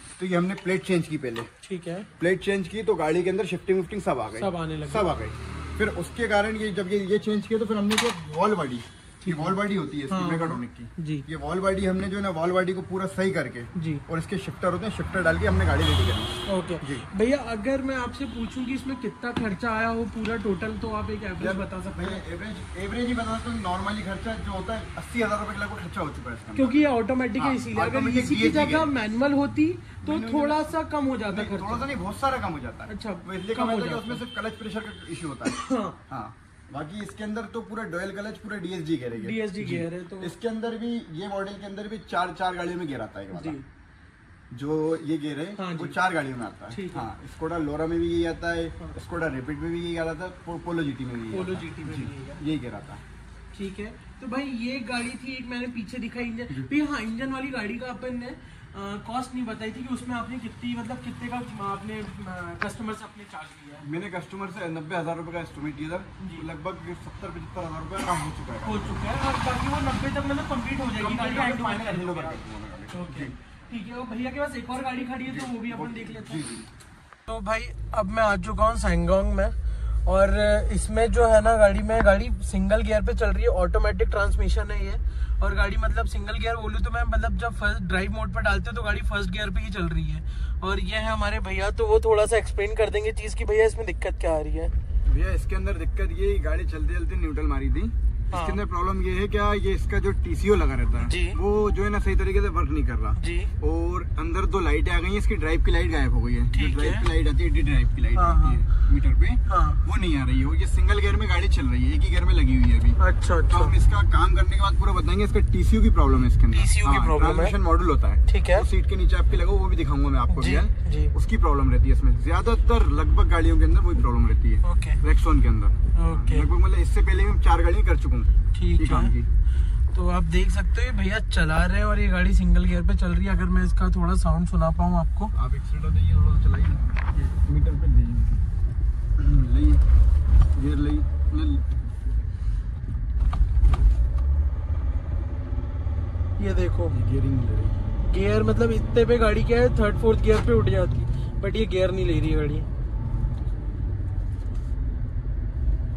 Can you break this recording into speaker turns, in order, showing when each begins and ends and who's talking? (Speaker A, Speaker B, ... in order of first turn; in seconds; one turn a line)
Speaker A: 0.2-1.5
Speaker B: 1.6-2.1
Speaker A: 2.2-17.1
Speaker B: 4.4-5.1
Speaker B: 9.2-9.6
Speaker B: 10.1-11.3
Speaker B: 13.8-14.1
Speaker B: 16.5-22.2
Speaker A: 21.4-26.9
Speaker B: 26.6-31.9
Speaker A: 27.4-28.9
Speaker A: 30.0-30.8
Speaker A: 31.3-43.6
Speaker B: 32.9-34.2
Speaker B: 35.5-36.0
Speaker B: 39.2-40.3
Speaker B: 43.3-43.6
Speaker A: 44.5-53.0
Speaker B: 45.6-46.0
Speaker B: 46.7-47.1
Speaker B: 51.3-52.4
Speaker B: 53.5-63.9
Speaker A: 63.8-69.1
Speaker B: 66.2-66.5
Speaker B: 68.6-76.5
Speaker A: 71.0-73.3
Speaker A: 75.3-76.7
Speaker B: 77.3-94.7
Speaker A: 95.1-129.3
Speaker B: 98.3-98.6
Speaker B: 101.0-101.4
Speaker B: 103.2-103.5
Speaker B: 106.5-107.1
Speaker B: 108.2-108.7
Speaker B: 109.5-109.8
Speaker B: 113.0-113.8
Speaker B: 116.5-117.6
Speaker B: 118.3-118.7
Speaker B: 120.3-121.1
Speaker B: 124.6-125.0
Speaker B: 126.0-126.5
Speaker B: 128.5-129.2
Speaker B: 129.9-135.3
Speaker A: 135.3-138.4
Speaker A: 139.2-139.8
Speaker A: 140.6-141.7
Speaker B: 146.4-147.0
Speaker A: 146.9-147.8
Speaker B: 148.1-152.7